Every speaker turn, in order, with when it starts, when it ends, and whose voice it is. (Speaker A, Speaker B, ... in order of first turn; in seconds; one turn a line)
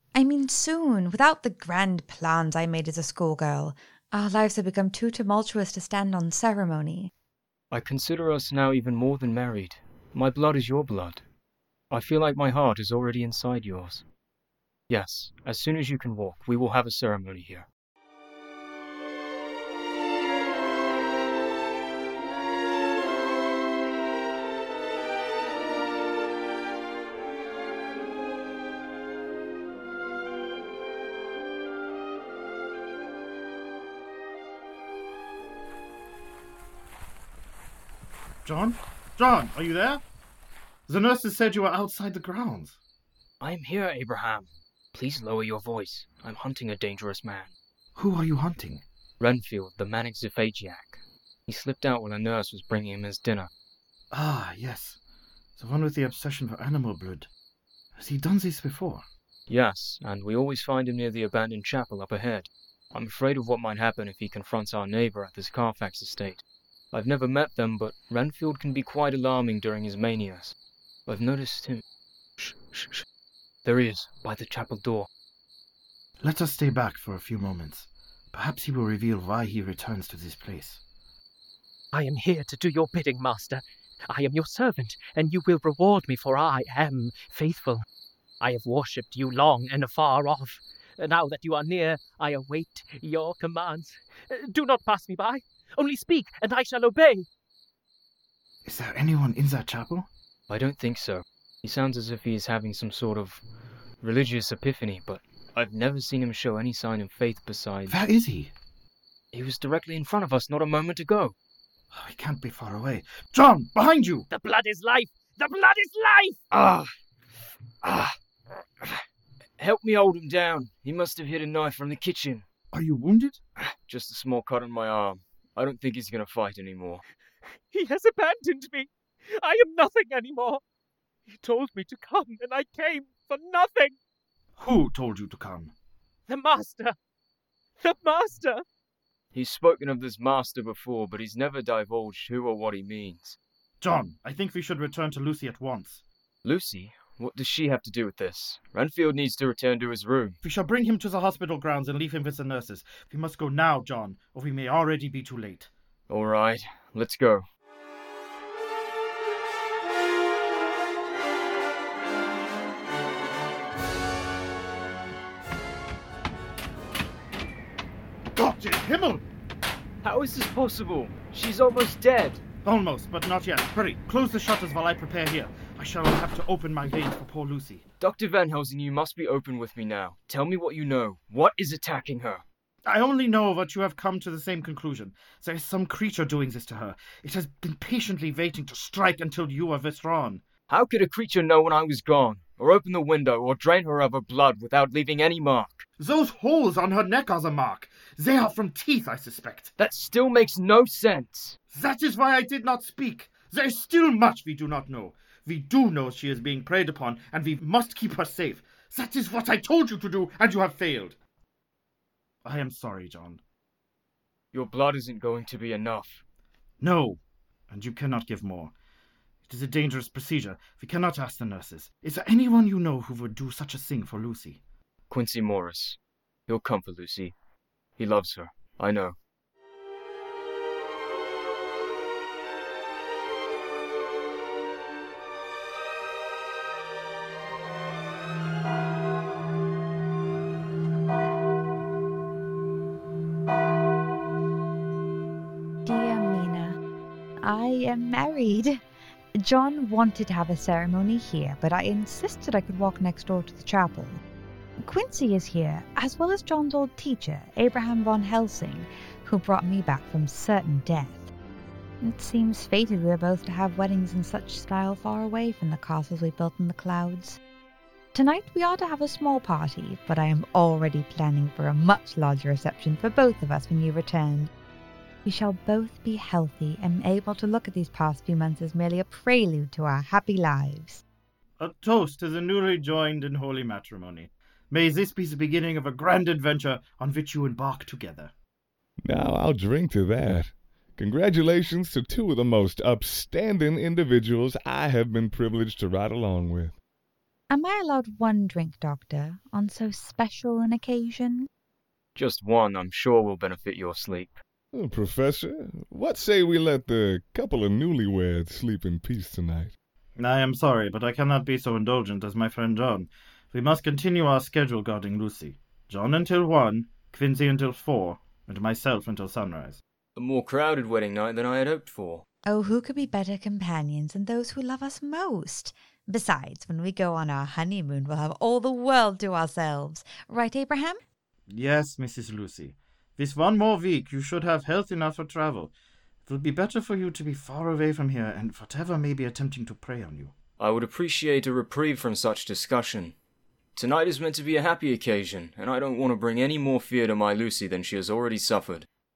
Speaker A: 0.1-7.1
Speaker B: 7.7-11.2
Speaker B: 11.9-14.0
Speaker B: 14.9-17.7
Speaker C: 38.5-40.0
Speaker C: 40.9-42.8
Speaker B: 43.4-47.5
Speaker C: 48.0-48.8
Speaker B: 49.2-53.5
Speaker C: 54.1-55.0
Speaker C: 55.6-57.3
Speaker C: 58.0-59.1
Speaker B: 59.5-70.5
Speaker B: 71.1-71.8
Speaker B: 72.4-73.0
Speaker B: 73.7-75.1
Speaker C: 76.2-80.8
Speaker D: 81.9-87.8
Speaker D: 88.4-97.3
Speaker C: 98.7-100.1
Speaker B: 100.5-103.4
Speaker B: 104.0-108.0
Speaker C: 107.9-108.5
Speaker B: 109.3-111.3
Speaker C: 111.9-114.3
Speaker D: 114.3-116.4
Speaker B: 116.5-116.9
Speaker B: 117.8-118.2
Speaker B: 119.6-122.5
Speaker C: 122.7-123.4
Speaker B: 123.6-127.0
Speaker D: 127.7-130.6
Speaker D: 131.3-134.0
Speaker C: 134.6-135.7
Speaker D: 136.3-136.9
Speaker D: 137.8-138.6
Speaker B: 139.3-143.4
Speaker C: 143.8-146.0
Speaker B: 146.4-150.4
Speaker C: 150.4-155.7
Speaker B: 156.1-157.5
Speaker C: 168.4-169.2
Speaker B: 170.0-172.4
Speaker C: 172.7-177.8
Speaker B: 178.0-182.4
Speaker C: 182.9-190.4
Speaker B: 190.7-195.9
Speaker C: 196.0-199.7
Speaker B: 199.8-201.6
Speaker C: 201.7-211.2
Speaker C: 212.4-213.4
Speaker B: 214.5-216.2
Speaker C: 216.8-218.7
Speaker C: 219.5-224.6
Speaker B: 225.1-227.3
Speaker B: 228.0-229.2
Speaker A: 245.8-246.8
Speaker A: 247.4-248.8
Speaker A: 249.4-254.2
Speaker A: 254.8-261.3
Speaker A: 262.0-267.4
Speaker A: 268.1-274.5
Speaker A: 275.2-281.0
Speaker C: 281.6-288.3
Speaker E: 289.1-296.8
Speaker A: 297.5-301.5
Speaker B: 302.1-304.4
Speaker E: 304.7-309.7
Speaker C: 310.2-319.8
Speaker B: 320.2-322.2
Speaker A: 322.5-331.0
Speaker C: 331.5-335.7
Speaker C: 336.3-340.3
Speaker B: 340.6-343.1
Speaker B: 343.8-348.9